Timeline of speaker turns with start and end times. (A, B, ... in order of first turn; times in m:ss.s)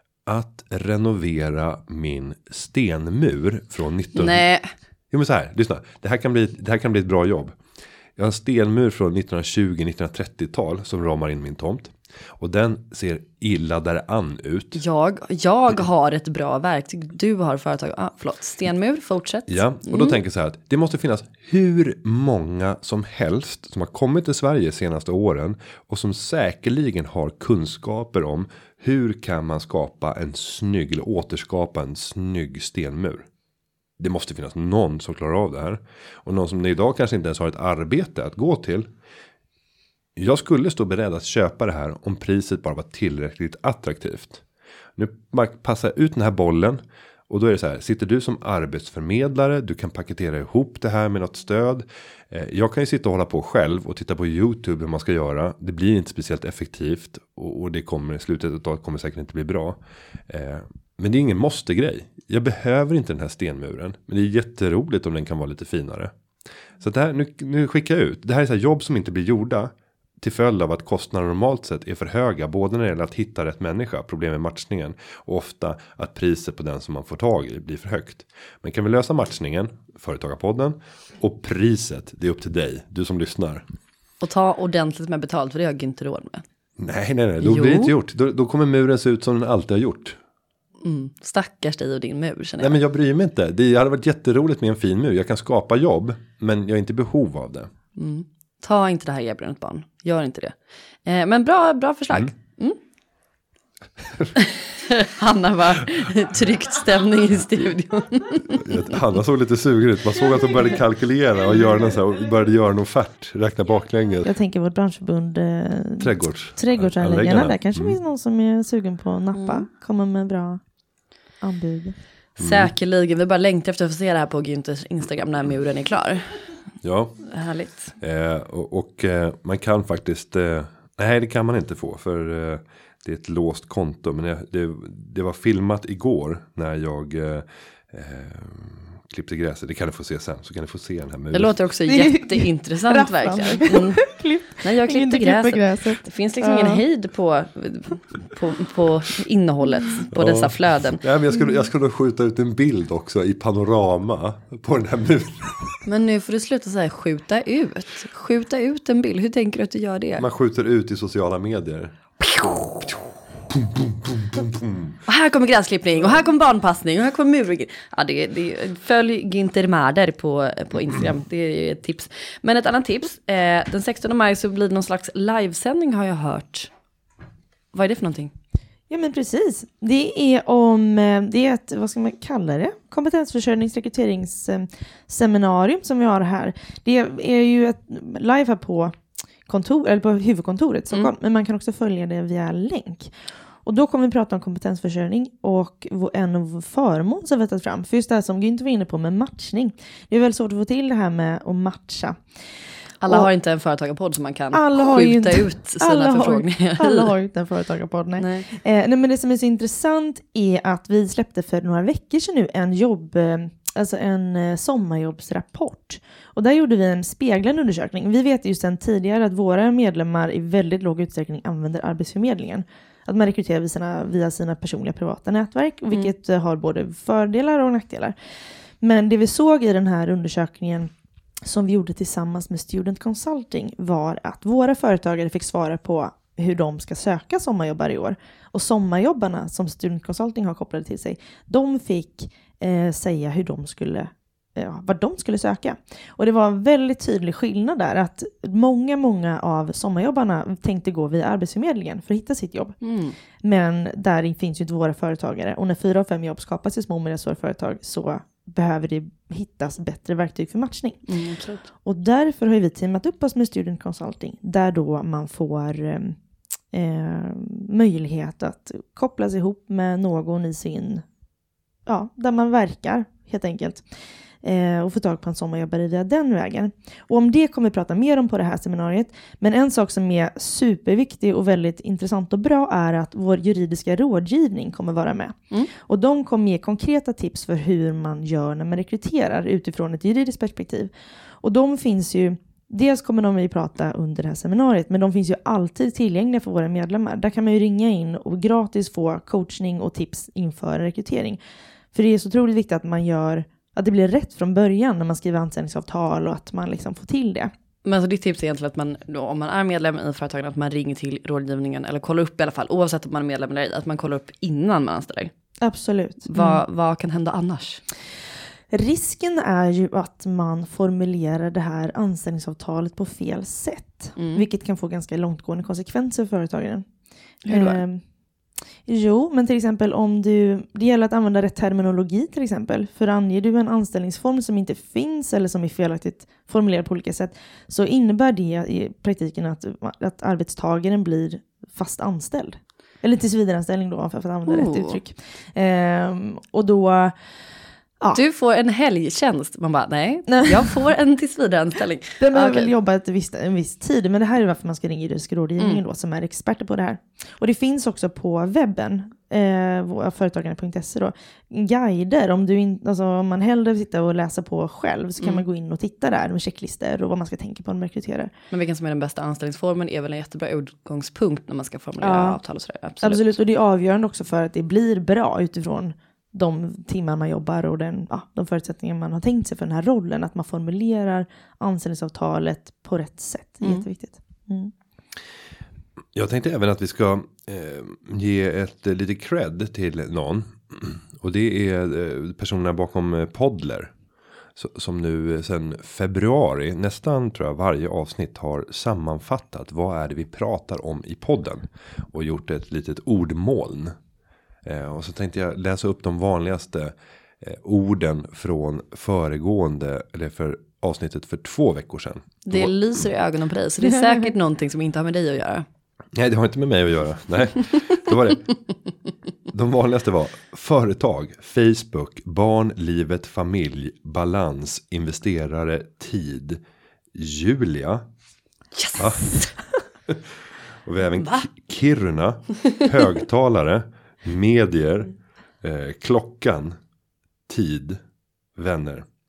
0:00.2-0:04.4 A
0:04.2-0:04.7 B
0:05.1-0:07.6 A
0:08.2-0:14.8 A
0:14.8-0:20.2 B
0:19.5-0:33.3 A
0:34.0-0:38.9 A
0:40.2-0:44.4 A
0:45.0-1:06.1 A
1:06.8-1:23.6 A
1:24.2-1:26.4 B
1:26.8-1:30.2 A
1:27.4-1:27.9 B
1:30.8-1:32.8 B
1:32.6-1:37.7 A
1:38.0-1:40.5 B
1:41.0-1:42.8 B
1:44.0-1:44.3 A
1:44.4-1:48.8 B
1:48.5-1:54.3 A
1:54.2-2:00.6 C
1:56.0-1:58.0 A
1:59.3-1:59.7 B
2:01.4-2:02.0 C
2:02.4-2:06.5 B
2:02.4-2:02.7 A
2:06.8-2:07.2 A
2:07.2-2:07.9 B
2:08.0-2:21.6 A
2:21.3-2:31.0 B
2:21.9-2:26.8 C
2:30.1-2:35.8 A
2:35.8-2:40.2 B
2:40.2-2:45.0 A
2:45.0-2:56.7 B
2:57.7-2:58.3 B
2:58.9-3:13.1 C
3:13.6-3:22.2 C
3:23.0-3:27.1 B
3:24.5-3:48.1 C
3:28.2-3:28.5 B
3:48.8-3:50.9 C
3:51.4-4:12.8 C
4:12.8-4:13.2 B
4:13.4-4:21.0 C
4:21.1-4:21.6 B
4:21.8-4:26.2 C
4:26.7-4:31.0 C
4:31.8-4:33.8 C
4:34.4-4:50.9 C
4:51.4-5:01.4 C
5:01.9-5:07.5 C
5:07.8-5:15.3 B
5:15.6-5:16.6 C
5:16.3-5:17.8 B
5:18.7-5:26.8 C
5:24.2-5:24.4 B
5:27.4-5:27.8 B
5:27.5-5:28.0 C
5:28.8-5:47.1 C
5:44.4-5:45.0 B
5:48.1-5:52.7 B
5:50.3-5:50.6 C
5:52.2-6:08.3 C
6:08.5-6:13.3 B
6:12.0-6:12.4 C
6:13.0-6:24.7 C
6:26.1-6:33.9 A
6:34.6-6:43.9 A
6:44.6-6:52.7 A
6:52.4-6:55.6 B
6:56.1-6:58.5 A
6:59.5-7:06.6 A
7:07.1-7:08.1 A
7:08.8-7:09.5 B
7:09.0-7:09.3 A
7:10.8-7:16.8 A
7:11.2-7:11.4 B
7:17.5-7:18.0 A
7:18.6-7:19.1 A